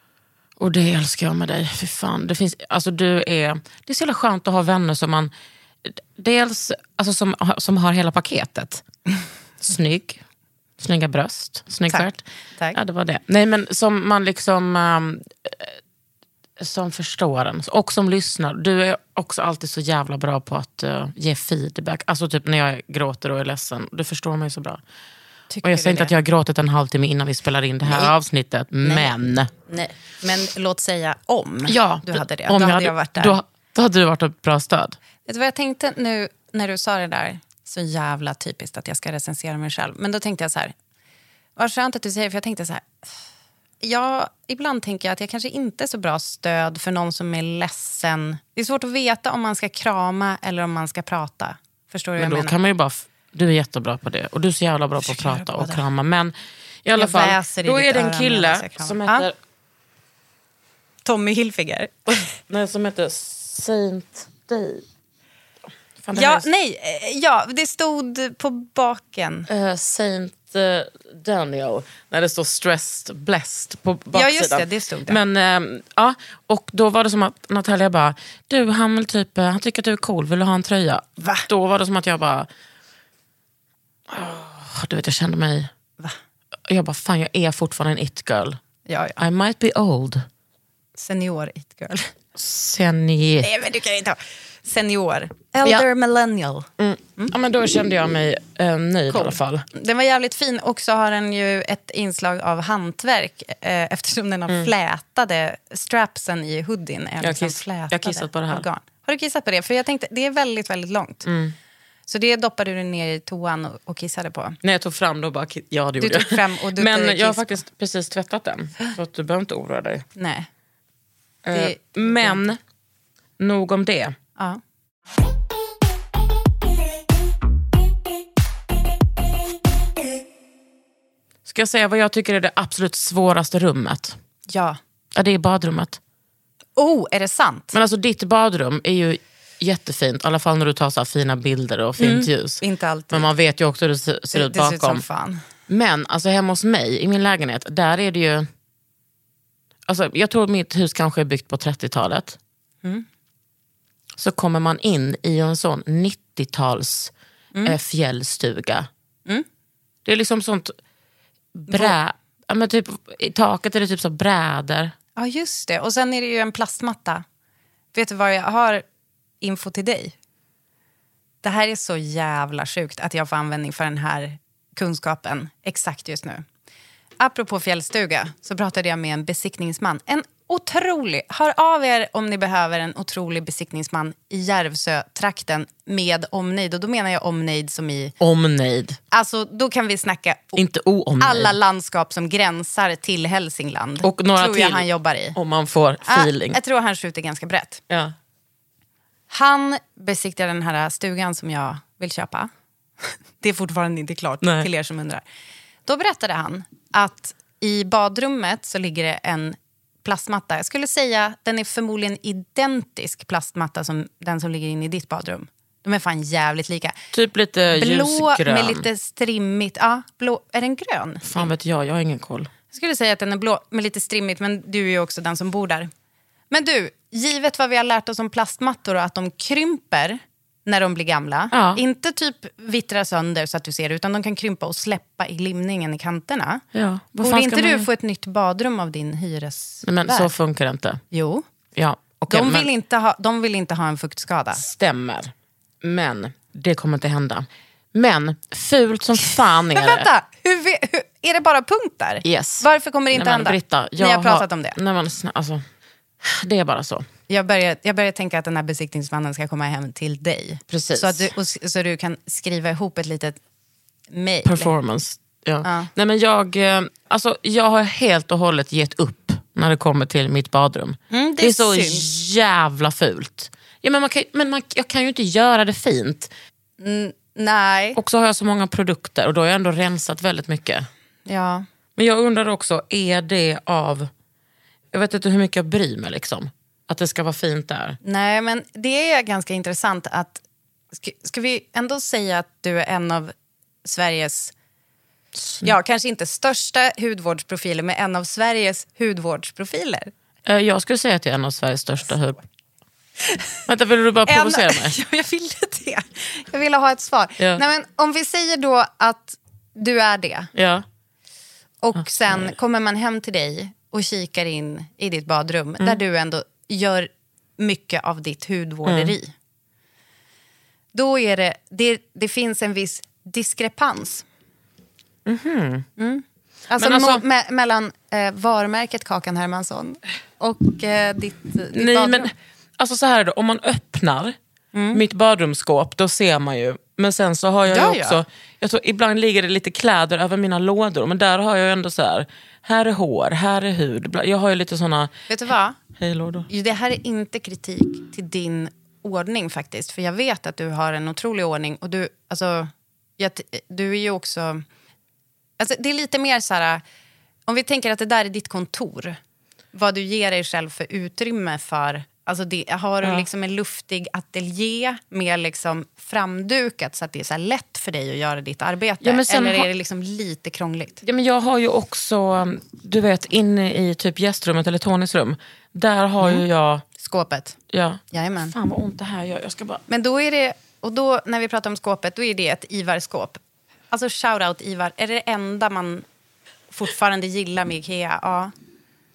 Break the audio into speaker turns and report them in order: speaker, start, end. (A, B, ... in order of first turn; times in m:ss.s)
0:00.6-0:05.3 A
0:05.8-0:08.8 A
0:09.6-0:10.2 A
0:10.8-0:15.7 A
0:11.9-0:12.8 B
0:16.6-0:24.8 A
0:25.5-0:26.1 B
0:25.6-0:29.5 A
0:27.8-0:28.1 B
0:28.8-0:33.4 B
0:31.7-0:35.0 A
0:35.2-0:40.7 B
0:41.6-0:43.1 B
0:43.8-0:52.5 B
0:52.2-0:56.3 A
0:55.0-0:55.8 B
0:56.8-0:59.3 A
0:57.0-0:59.3 B
1:01.0-1:02.3 B
1:02.4-1:04.8 A
1:06.0-1:06.5 A
1:06.1-1:09.5 B
1:09.5-1:22.5 A
1:14.1-1:15.2 B
1:21.2-1:21.4 B
1:24.1-1:25.7 A
1:26.7-1:28.6 A
1:28.9-1:29.2 B
1:29.2-1:30.2 A
1:31.0-1:32.1 B
1:32.4-1:33.5 A
1:33.4-1:37.3 B
1:36.8-1:39.6 A
1:39.1-1:51.3 B
1:47.2-1:48.6 A
1:51.2-1:51.5 A
1:52.1-1:54.6 B
1:54.6-2:00.0 A
1:56.0-1:57.6 B
2:00.2-2:00.5 B
2:01.4-2:02.6 A
2:01.5-2:02.4 B
2:03.4-2:04.1 A
2:11.4-2:14.2 A
2:14.5-2:14.8 B
2:15.1-2:16.0 A
2:16.8-2:17.7 B
2:17.7-2:25.0 A
2:22.0-2:23.3 B
2:24.3-2:25.4 B
2:25.7-2:28.5 A
2:29.9-2:32.4 A
2:34.2-2:37.1 A
2:37.6-2:38.9 A
2:40.0-2:40.8 A
2:41.5-2:44.9 A
2:41.7-2:41.9 B
2:45.2-2:47.2 B
2:47.9-2:48.8 B
2:49.4-2:50.1 B
2:51.4-2:56.4 B
2:57.2-3:08.1 B
3:08.2-3:09.0 A
3:09.1-3:10.6 B
3:10.6-3:11.6 A
3:11.2-3:15.4 B
3:14.0-3:16.6 A
3:16.0-3:17.8 B
3:19.3-3:22.5 B
3:23.0-3:25.2 B
3:24.4-3:24.7 A
3:25.8-3:37.0 B
3:37.1-3:38.8 A
3:37.7-3:41.5 B
3:41.2-3:42.5 A
3:42.7-3:45.9 B
3:46.5-3:56.6 B
3:51.5-3:51.8 A
3:56.7-3:57.9 A
3:57.2-4:00.3 B
3:59.8-4:01.0 A
4:01.1-4:01.4 B
4:01.8-4:02.7 A
4:02.3-4:04.6 B
4:04.6-4:10.1 A
4:09.7-4:14.8 B
4:12.2-4:15.6 A
4:16.2-4:17.1 A
4:17.3-4:23.4 B
4:20.7-4:21.3 A
4:24.1-4:24.7 B
4:24.4-4:36.3 A
4:25.6-4:25.9 B
4:31.1-4:32.0 B
4:36.8-4:38.0 B
4:38.0-4:40.9 A
4:41.2-4:41.6 B
4:42.0-4:44.1 A
4:44.9-4:48.0 A
4:48.0-4:54.5 B
4:55.3-4:55.7 A
4:55.6-5:00.1 B
5:00.4-5:02.4 A
5:03.3-5:03.6 B
5:03.7-5:05.0 A
5:04.2-5:10.5 B
5:10.5-5:10.8 A
5:11.8-5:19.3 B
5:18.8-5:19.1 A
5:20.9-5:24.2 B
5:25.2-5:25.9 A
5:26.0-5:32.3 B
5:26.8-5:27.2 A
5:31.7-5:34.4 A
5:34.7-5:35.0 B
5:34.9-5:45.1 A
5:37.7-5:38.2 B
5:45.3-5:45.8 B
5:46.0-5:46.5 A
5:46.5-5:54.6 B
5:55.6-5:56.8 B
5:57.5-5:59.2 B
5:59.7-6:11.0 B
6:09.0-6:09.7 A
6:11.0-6:16.8 A
6:17.0-6:17.6 B
6:17.7-6:19.8 A
6:18.1-6:18.5 B
6:19.9-6:23.4 B
6:23.9-6:26.0 B
6:26.7-6:28.5 B